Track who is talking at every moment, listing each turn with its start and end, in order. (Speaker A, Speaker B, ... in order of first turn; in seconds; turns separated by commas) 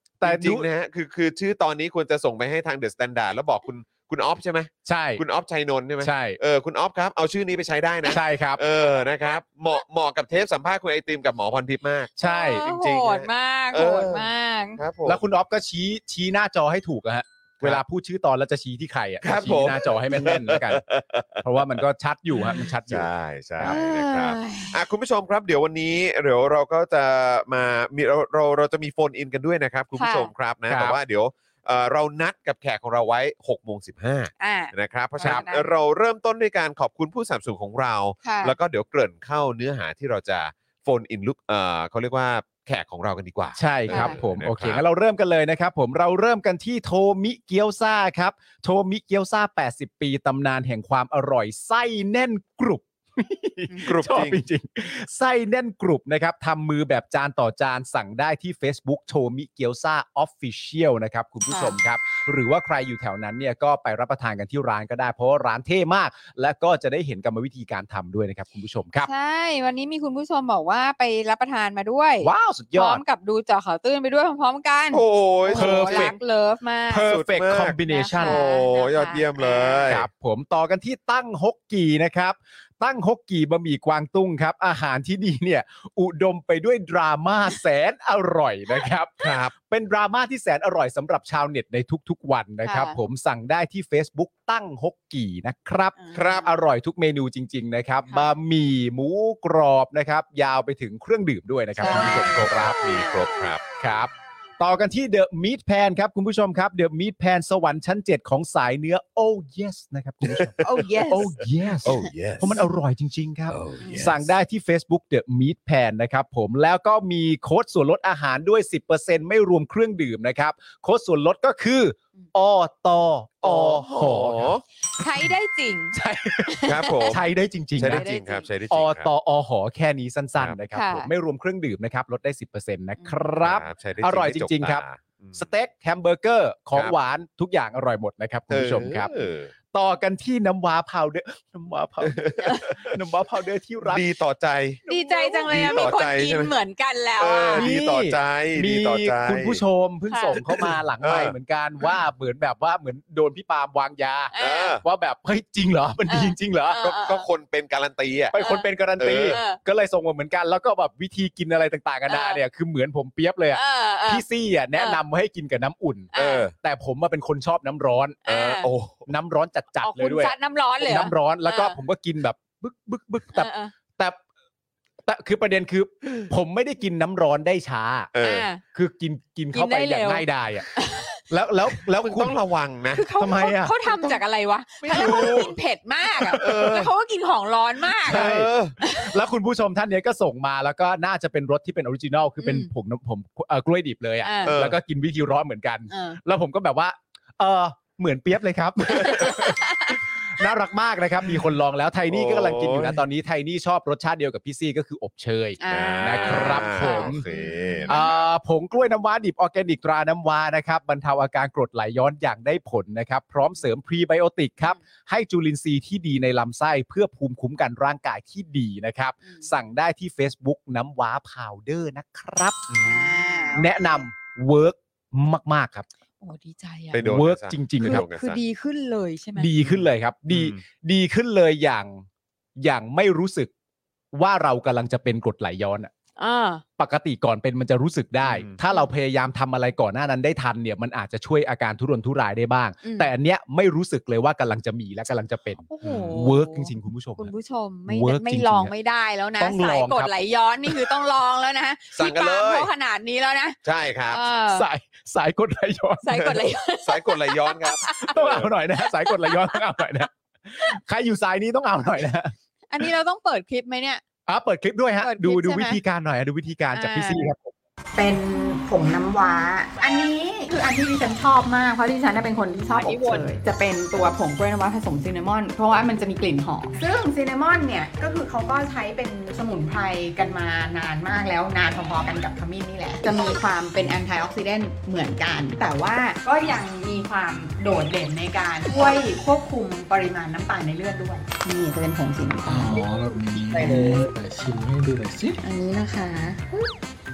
Speaker A: 0.2-0.7, Speaker B: 0.2-15.2, Speaker A: 4.9-5.2, Speaker A: 6.0-6.4, Speaker A: 8.1-8.6, Speaker A: 12.2-12.7, Speaker C: 12.2-14.8, Speaker A: 15.1-20.8, Speaker B: 19.2-21.8, Speaker A: 21.4-23.8, Speaker B: 22.4-44.8, Speaker C: 23.6-24.8, Speaker C: 30.0-30.3, Speaker A: 30.7-31.0, Speaker C: 34.4-35.7, Speaker C: 38.2-38.5, Speaker A: 43.6-69.1, Speaker C: 43.9-44.2, Speaker B: 53.9-54.4, Speaker C: 61.5-61.8, Speaker C: 69.0-77.1, Speaker A: 72.2-73.0, Speaker B: 74.9-76.2, Speaker A: 75.5-76.2, Speaker A: 76.9-78.4, Speaker B: 77.1-80.1, Speaker C: 77.9-79.9, Speaker A: 79.9-102.8, Speaker B: 89.2-89.5, Speaker C: 92.6-93.0, Speaker C: 96.0-96.5, Speaker B: 96.2-96.5, Speaker C: 98.1-98.3, Speaker C: 101.8-103.3, Speaker B: 101.9-103.6, Speaker A: 103.8-124.5, Speaker B: 110.2-110.9, Speaker C: 110.7-111.1, Speaker D: 110.8-111.1, Speaker B: 111.8-112.7, Speaker B: 113.5-114.2, Speaker C: 113.8-114.1, Speaker B: 123.4-124.6, Speaker C: 124.9-127.2, Speaker A: 125.9-128.1, Speaker B: 126.7-127.2, Speaker B: 127.8-129.1, Speaker C: 127.9-128.5, Speaker A: 128.7-139.1, Speaker C: 130.7-131.1, Speaker B: 133.4-135.5, Speaker B: 138.5-139.5, Speaker A: 139.7-144.1, Speaker B: 142.0-143.0, Speaker B: 143.8-144.8, Speaker A: 144.9-145.9, Speaker C: 144.9-147.7, Speaker B: 145.5-146.5, Speaker B: 147.2-149.6, Speaker A: 147.6-156.8, Speaker C: 150.1-150.4, Speaker B: 150.3-151.3, Speaker C: 154.3-154.8, Speaker B: 154.4-154.8, Speaker C: 156.1-157.2, Speaker B: 156.8-158.3, Speaker A: 158.3-168.2, Speaker C: 158.3-158.7, Speaker B: 159.0-159.4, Speaker C: 159.3-159.6, Speaker C: 162.1-162.4, Speaker C: 163.5-165.0, Speaker C: 166.1-166.5, Speaker B: 166.2-166.5, Speaker C: 168.3-168.7, Speaker B: 168.3-169.1, Speaker A: 169.1-174.2, Speaker C: 169.8-171.8, Speaker C: 173.3-173.7, Speaker A: 175.0-178.1, Speaker B: 178.1-178.5, Speaker C: 178.2-178.6, Speaker A: 178.7-180.7, Speaker C: 179.5-181.2, Speaker A: 181.3-182.4, Speaker B: 181.9-183.1, Speaker C: 182.9-188.3, Speaker A: 183.2-184.1, Speaker B: 184.8-185.5, Speaker A: 184.9-185.5, Speaker A: 186.2-186.6, Speaker B: 186.4-186.9, Speaker A: 188.1-207.3, Speaker B: 188.1-188.8, Speaker C: 188.8-189.1, Speaker C: 192.4-192.7, Speaker C: 194.2-194.6, Speaker B: 194.5-194.8, Speaker C: 195.9-196.2, Speaker C: 199.0-200.0, Speaker B: 202.1-203.0, Speaker C: 205.6-208.1, Speaker B: 205.7-208.2, Speaker A: 207.9-222.6, Speaker B: 222.7-223.1, Speaker C: 222.8-223.7, Speaker A: 223.5-225.9, Speaker C: 226.2-227.1, Speaker B: 226.9-228.4, Speaker A: 227.0-228.0, Speaker C: 227.8-229.5, Speaker A: 229.4-232.1, Speaker B: 229.6-230.6, Speaker A: 232.6-233.5, Speaker A: 234.1-235.9, Speaker C: 236.2-236.6, Speaker A: 236.8-247.3, Speaker B: 238.2-238.6, Speaker C: 242.8-243.1, Speaker C: 245.7-253.6, Speaker B: 245.8-246.1, Speaker A: 247.9-248.7, Speaker A: 249.4-250.1, Speaker A: 250.7-250.9, Speaker B: 251.9-252.7, Speaker B: 253.6-254.2, Speaker C: 254.1-254.7, Speaker A: 254.5-256.2, Speaker C: 256.0-258.1, Speaker B: 256.1-258.5, Speaker A: 258.0-262.9, Speaker C: 258.8-259.6, Speaker C: 262.7-264.0, Speaker A: 264.3-267.5, Speaker C: 265.0-265.8, Speaker C: 266.7-267.3, Speaker D: 267.9-294.1, Speaker C: 272.7-273.3, Speaker E: 292.4-295.4, Speaker D: 295.4-296.7